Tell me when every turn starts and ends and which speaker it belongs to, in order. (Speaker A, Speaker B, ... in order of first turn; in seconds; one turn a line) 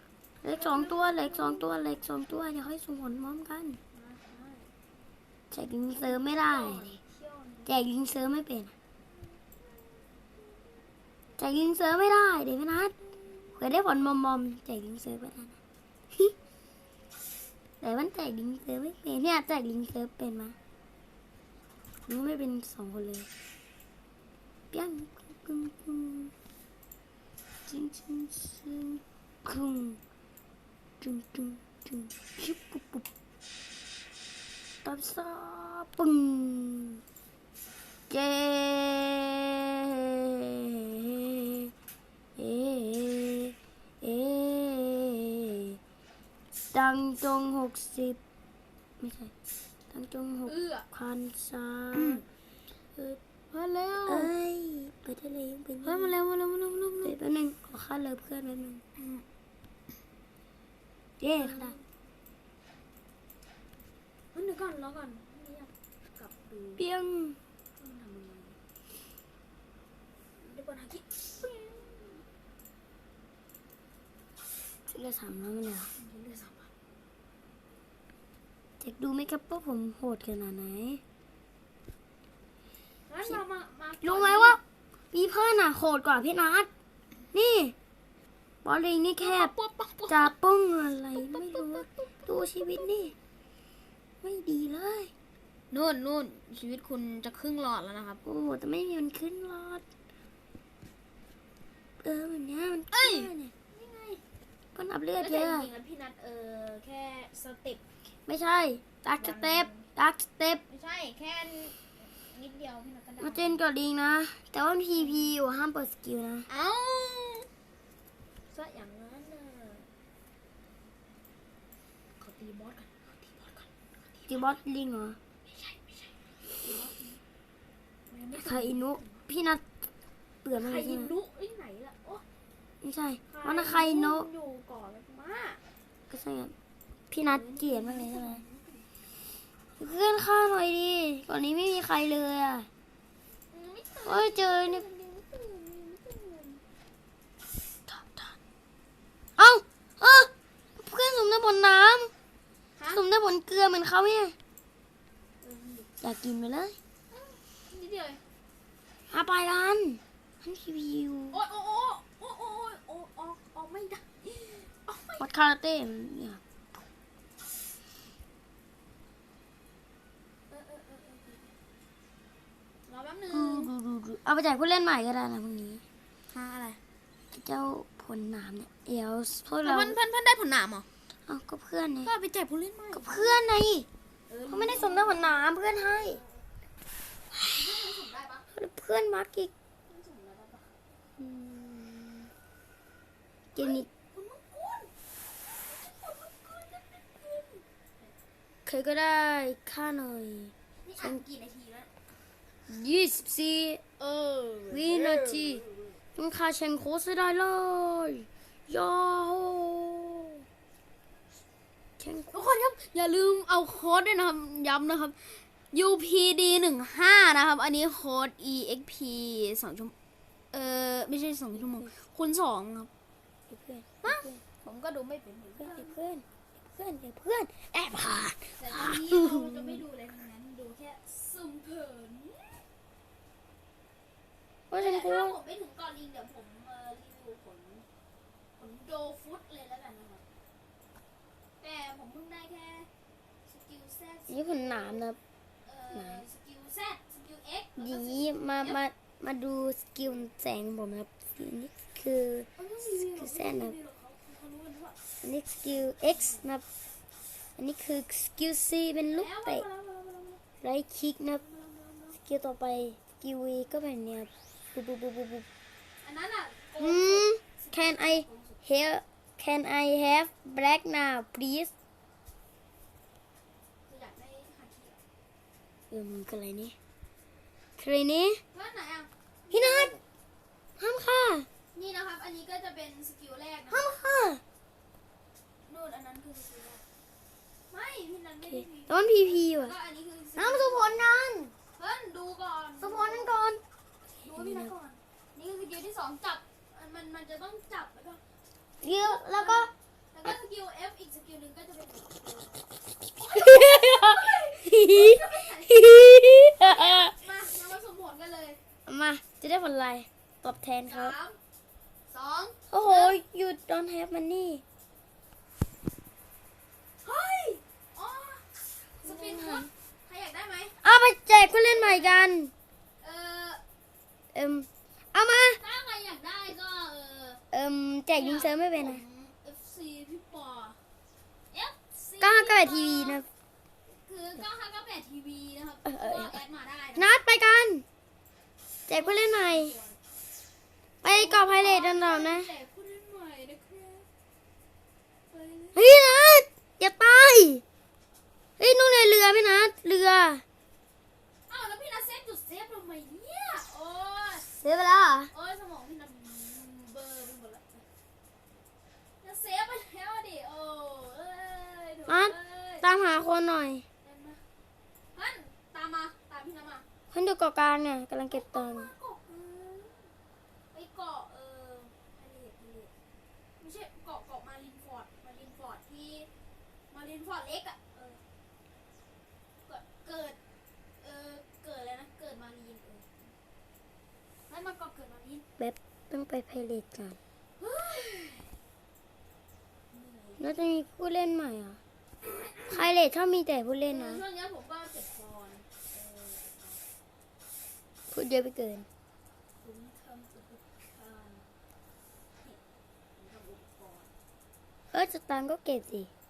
Speaker A: 0.4-3.8
Speaker B: 0.5-1.7
Speaker B: 3.9-4.7
Speaker A: 5.5-7.0
Speaker B: 6.0-7.7
Speaker A: 7.7-8.7
Speaker B: 9.1-10.8
Speaker A: 11.4-13.0
Speaker B: 13.2-13.5
Speaker A: 13.5-15.6
Speaker A: 17.8-20.6
Speaker A: 22.1-23.3
Speaker A: 24.7-26.3
Speaker A: 27.7-30.0
Speaker A: 31.0-33.1
Speaker A: 34.8-37.0
Speaker A: 38.1-41.7
Speaker A: 42.4-45.8
Speaker A: 46.7-48.2
Speaker A: 49.0-49.3
Speaker A: 49.9-52.2
Speaker B: 50.5-50.9
Speaker B: 52.0-52.2
Speaker B: 53.5-54.3
Speaker A: 54.1-56.1
Speaker B: 55.8-57.2
Speaker A: 57.0-58.8
Speaker B: 59.0-59.2
Speaker A: 61.2-61.8
Speaker B: 61.4-61.8
Speaker B: 64.3-66.8
Speaker A: 66.8-67.4
Speaker B: 67.8-68.6
Speaker B: 70.4-72.2
Speaker A: 74.9-75.9
Speaker B: 76.0-76.7
Speaker A: 78.8-81.0
Speaker B: 83.1-84.6
Speaker A: 84.0-84.6
Speaker A: 85.1-86.7
Speaker A: 87.3-87.8
Speaker A: 88.6-89.5
Speaker B: 89.2-90.3
Speaker A: 90.1-93.2
Speaker B: 91.2-93.1
Speaker A: 94.2-95.1
Speaker B: 95.7-98.2
Speaker A: 98.2-99.8
Speaker A: 102.0-103.5
Speaker B: 102.9-104.2
Speaker A: 104.8-105.7
Speaker B: 105.2-107.8
Speaker A: 108.3-110.6
Speaker B: 109.2-109.9
Speaker B: 110.7-113.6
Speaker A: 113.2-116.5
Speaker B: 115.0-115.3
Speaker B: 116.5-117.5
Speaker B: 118.5-119.9
Speaker B: 122.2-124.6
Speaker A: 124.3-125.2
Speaker B: 125.5-127.2
Speaker B: 128.1-129.2
Speaker A: 128.4-129.6
Speaker A: 130.4-131.1
Speaker B: 130.6-132.2
Speaker A: 132.8-134.3
Speaker B: 133.3-135.6
Speaker A: 136.1-136.5
Speaker A: 137.1-138.4
Speaker B: 137.3-138.9
Speaker A: 139.8-142.7
Speaker B: 143.5-146.6
Speaker A: 144.1-144.8
Speaker A: 147.9-148.3
Speaker A: 149.4-152.1
Speaker B: 152.8-153.0
Speaker A: 152.9-154.3
Speaker B: 155.4-155.9
Speaker A: 156.0-156.8
Speaker B: 157.1-158.2
Speaker A: 159.1-161.4
Speaker B: 161.3-165.3
Speaker A: 165.2-166.4
Speaker B: 170.5-171.5
Speaker B: 172.9-173.7
Speaker A: 173.3-175.8
Speaker B: 176.3-176.8
Speaker A: 177.3-180.0
Speaker B: 179.6-180.9
Speaker A: 181.3-182.1
Speaker B: 182.1-183.4
Speaker A: 182.9-183.9
Speaker B: 184.3-186.5
Speaker A: 184.5-186.2
Speaker A: 187.3-187.6
Speaker B: 187.5-188.5
Speaker A: 188.5-189.5
Speaker B: 189.9-190.7
Speaker A: 191.2-192.3
Speaker B: 193.6-194.9
Speaker A: 193.6-193.9
Speaker B: 195.5-198.1
Speaker A: 198.7-201.2
Speaker B: 200.8-201.9
Speaker A: 202.7-203.8
Speaker B: 204.0-206.0
Speaker A: 204.7-205.6
Speaker A: 206.2-210.3
Speaker A: 212.0-212.4
Speaker B: 212.3-219.9
Speaker B: 220.5-222.9
Speaker A: 223.5-224.4
Speaker B: 224.0-226.0
Speaker A: 225.6-229.8
Speaker B: 228.6-232.7
Speaker A: 234.7-235.4
Speaker B: 234.7-237.8
Speaker B: 238.6-240.2
Speaker B: 241.6-242.9
Speaker B: 243.5-245.0
Speaker A: 244.3-245.2
Speaker B: 245.7-248.8
Speaker A: 245.9-246.2
Speaker A: 247.8-252.5
Speaker B: 252.6-255.0
Speaker A: 253.1-253.8
Speaker A: 255.2-256.6
Speaker B: 255.7-256.5
Speaker A: 257.6-259.7
Speaker B: 259.1-260.4
Speaker A: 260.6-261.4
Speaker B: 261.4-262.2
Speaker A: 262.2-265.5
Speaker B: 266.0-268.6
Speaker A: 266.8-271.7
Speaker B: 273.9-275.0
Speaker A: 275.9-276.8
Speaker A: 277.8-278.4
Speaker B: 278.5-279.9
Speaker A: 279.5-280.0
Speaker A: 280.8-281.5
Speaker B: 281.7-284.0
Speaker A: 283.7-284.4
Speaker B: 285.7-286.8
Speaker B: 287.7-291.1
Speaker A: 288.6-289.8
Speaker A: 290.4-291.5
Speaker B: 291.8-293.4
Speaker A: 292.8-293.6
Speaker B: 294.2-298.2
Speaker A: 294.4-294.7
Speaker A: 298.8-299.7
Speaker B: 298.9-302.6
Speaker B: 303.2-308.6
Speaker A: 303.2-307.2
Speaker A: 308.9-311.1
Speaker B: 310.9-311.4
Speaker B: 312.1-313.2
Speaker A: 312.7-314.6
Speaker B: 317.0-318.5
Speaker A: 319.0-319.7
Speaker B: 319.0-320.8
Speaker A: 320.8-322.5
Speaker B: 321.6-322.4
Speaker B: 323.0-323.6
Speaker A: 324.3-325.6
Speaker B: 325.5-327.4
Speaker A: 327.5-329.0
Speaker B: 328.1-330.8
Speaker B: 331.5-333.2
Speaker A: 332.2-333.3
Speaker B: 333.9-337.1
Speaker A: 335.9-336.4
Speaker A: 337.0-337.9
Speaker A: 338.9-339.8
Speaker B: 338.9-340.0
Speaker A: 341.0-342.5
Speaker B: 341.0-344.1
Speaker B: 345.3-346.0
Speaker A: 345.8-347.6
Speaker A: 348.6-350.4
Speaker B: 351.5-354.5
Speaker A: 354.6-355.3
Speaker B: 355.3-357.9
Speaker B: 359.2-362.9
Speaker A: 362.1-363.9
Speaker B: 364.0-364.4
Speaker B: 365.1-366.9
Speaker A: 367.1-368.9
Speaker B: 368.3-370.1
Speaker B: 370.7-372.9
Speaker B: 373.6-376.3
Speaker B: 376.9-378.2
Speaker B: 379.7-380.4
Speaker B: 381.0-383.3
Speaker B: 384.5-385.4
Speaker A: 385.6-387.2
Speaker B: 387.6-388.5
Speaker B: 389.9-390.6
Speaker A: 390.4-391.8
Speaker B: 392.2-392.9
Speaker A: 392.7-394.2
Speaker B: 393.9-396.8
Speaker A: 398.1-398.9
Speaker B: 399.6-401.5
Speaker B: 403.1-404.1
Speaker A: 404.9-406.1